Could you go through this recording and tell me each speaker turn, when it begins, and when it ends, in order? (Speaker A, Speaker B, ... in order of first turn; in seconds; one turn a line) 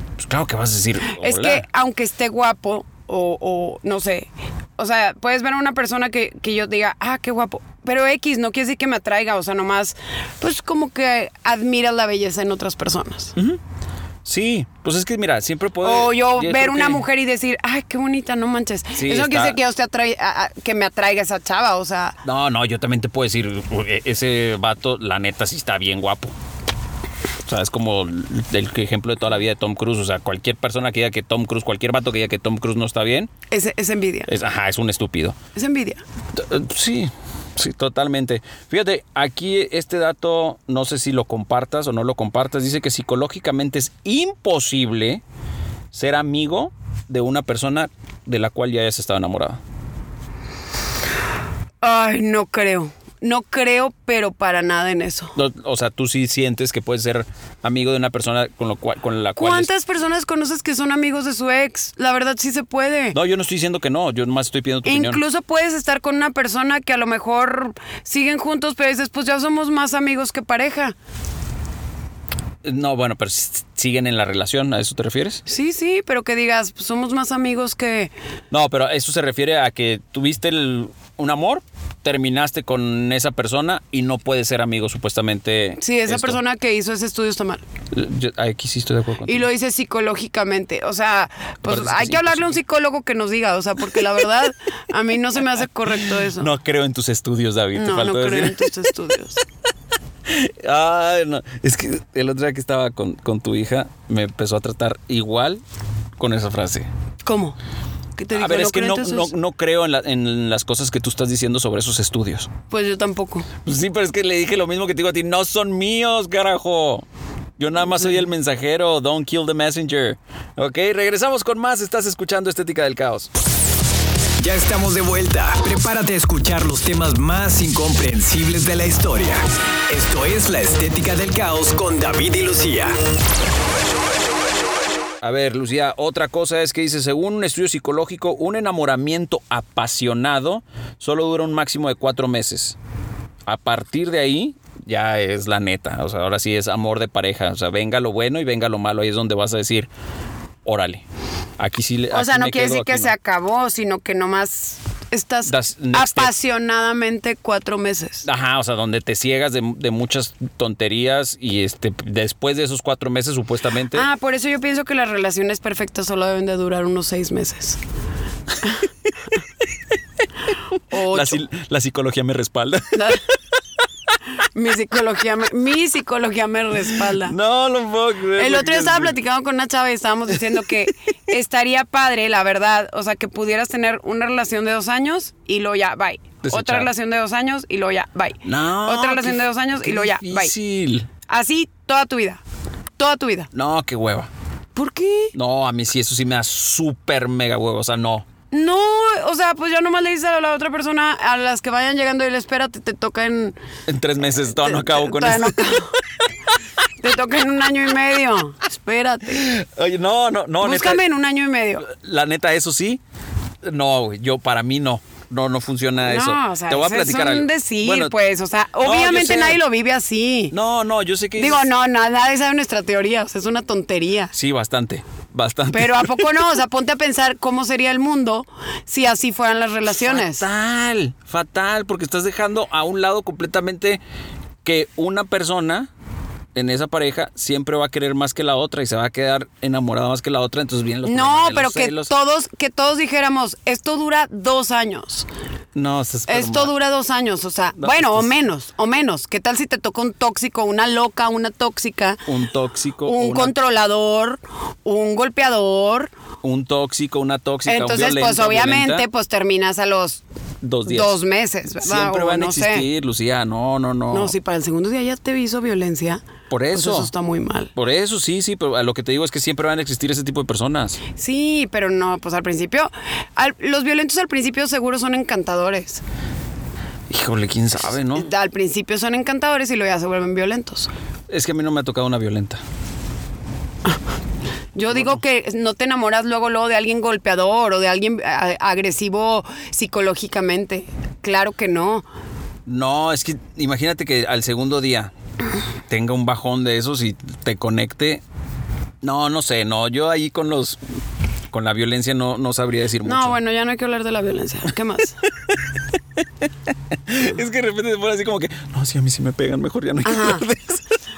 Speaker A: 0.2-1.6
Speaker B: 1.1-13.3
Speaker A: 14.2-17.0
Speaker B: 15.8-22.2
Speaker A: 19.0-19.6
Speaker A: 22.2-26.3
Speaker A: 27.5-33.3
Speaker B: 33.5-34.3
Speaker A: 34.3-35.4
Speaker B: 35.5-36.0
Speaker A: 36.4-45.2
Speaker A: 45.9-49.6
Speaker B: 51.8-55.4
Speaker A: 55.4-59.7
Speaker B: 59.4-63.2
Speaker A: 63.1-65.2
Speaker B: 64.8-71.0
Speaker A: 72.6-75.4
Speaker B: 75.5-78.1
Speaker A: 78.5-86.4
Speaker B: 85.8-87.6
Speaker A: 87.9-89.5
Speaker B: 89.3-96.5
Speaker A: 91.7-92.6
Speaker A: 95.9-98.7
Speaker B: 97.8-99.4
Speaker A: 100.3-105.6
Speaker A: 106.2-106.9
Speaker B: 107.3-107.6
Speaker B: 108.2-109.3
Speaker A: 108.3-112.5
Speaker B: 112.7-113.5
Speaker A: 113.7-117.1
Speaker A: 117.6-123.3
Speaker C: 124.4-133.0
Speaker A: 135.2-142.8
Speaker A: 143.5-149.9
Speaker A: 150.7-151.0
Speaker A: 151.6-153.1
Speaker B: 152.1-158.3
Speaker A: 155.5-156.3
Speaker A: 158.2-164.1
Speaker B: 163.9-167.8
Speaker B: 170.9-171.4
Speaker A: 170.9-173.2
Speaker B: 172.9-173.2
Speaker B: 174.4-177.3
Speaker A: 177.2-179.2
Speaker B: 178.4-190.5
Speaker A: 186.4-186.9
Speaker A: 188.4-191.1
Speaker B: 191.3-192.4
Speaker B: 193.0-193.5
Speaker A: 193.5-194.3
Speaker B: 194.8-195.3
Speaker A: 195.3-198.2
Speaker B: 198.5-203.6
Speaker A: 203.9-205.9
Speaker B: 204.5-205.9
Speaker B: 207.0-209.5
Speaker A: 209.3-211.0
Speaker B: 210.6-211.9
Speaker A: 211.8-213.0
Speaker A: 213.6-218.2
Speaker B: 216.1-220.5
Speaker A: 218.8-219.6
Speaker A: 220.5-221.7
Speaker B: 221.4-224.3
Speaker A: 224.3-226.3
Speaker B: 225.7-230.4
Speaker A: 230.0-234.0
Speaker A: 234.6-235.9
Speaker A: 236.6-242.1
Speaker B: 241.1-245.3
Speaker A: 245.7-246.7
Speaker B: 246.3-252.2
Speaker A: 247.8-248.3
Speaker A: 252.3-253.5
Speaker B: 253.1-256.1
Speaker A: 256.4-259.1
Speaker B: 257.7-260.2
Speaker A: 260.6-261.1
Speaker B: 260.9-262.9
Speaker A: 261.8-264.3
Speaker B: 264.1-267.7
Speaker A: 266.5-267.1
Speaker A: 267.8-271.0
Speaker B: 271.2-276.0
Speaker A: 277.1-278.3
Speaker B: 278.1-280.9
Speaker A: 281.3-282.6
Speaker B: 284.8-292.1
Speaker A: 284.9-285.2
Speaker A: 292.7-295.1
Speaker A: 295.9-298.2
Speaker A: 299.0-300.8
Speaker A: 301.5-303.4
Speaker B: 303.0-305.2
Speaker A: 307.1-310.9
Speaker B: 310.0-310.4